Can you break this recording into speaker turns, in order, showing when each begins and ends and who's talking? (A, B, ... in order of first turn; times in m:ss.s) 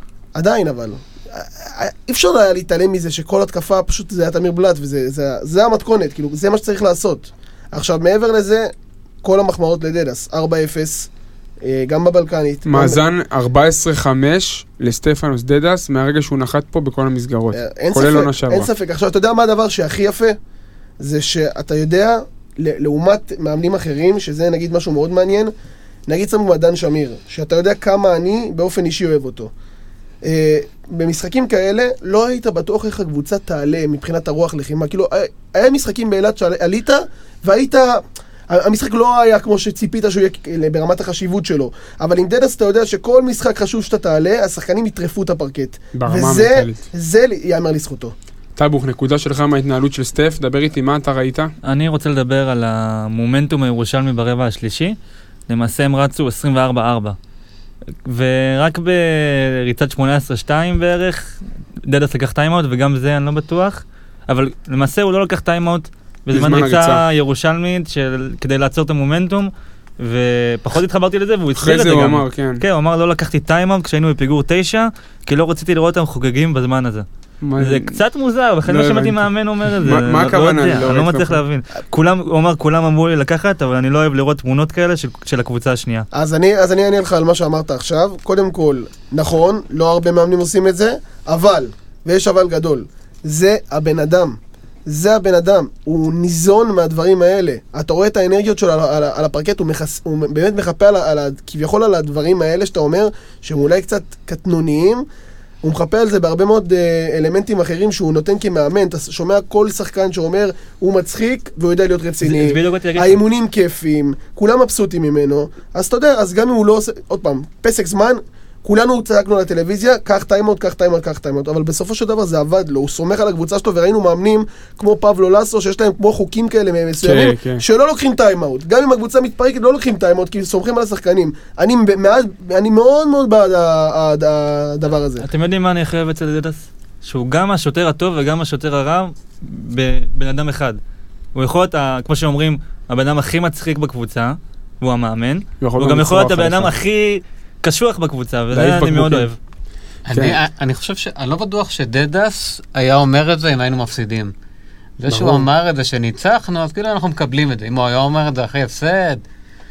0:00.3-0:08.7 A
0:09.2-0:11.1 A
0:11.6-0:13.0 A
0:12.6-0:18.7 B
0:17.5-0:20.4 A
0:21.0-0:25.5 A
0:26.1-0:29.5 A
0:30.2-0:48.1 A
0:45.9-0:46.8 B
0:48.6-0:51.5 B
0:51.6-0:55.0 C
0:55.5-0:57.2 C
0:58.0-1:17.0 C
1:06.3-1:07.0 B
1:11.6-1:12.6 B
1:17.4-1:18.0 B
1:17.6-1:26.1 C
1:18.7-1:19.2 B
1:19.7-1:21.4 B
1:26.1-1:45.0 A
1:45.6-2:15.2 A
1:52.2-1:53.2 C
2:07.0-2:07.6 B
2:15.2-2:20.8 C
2:21.3-2:29.4 C
2:25.6-2:26.7 B
2:28.5-2:29.3 B
2:30.1-2:34.3 D
2:30.1-2:30.4 B
2:35.0-2:39.2 D
2:35.1-2:35.5 B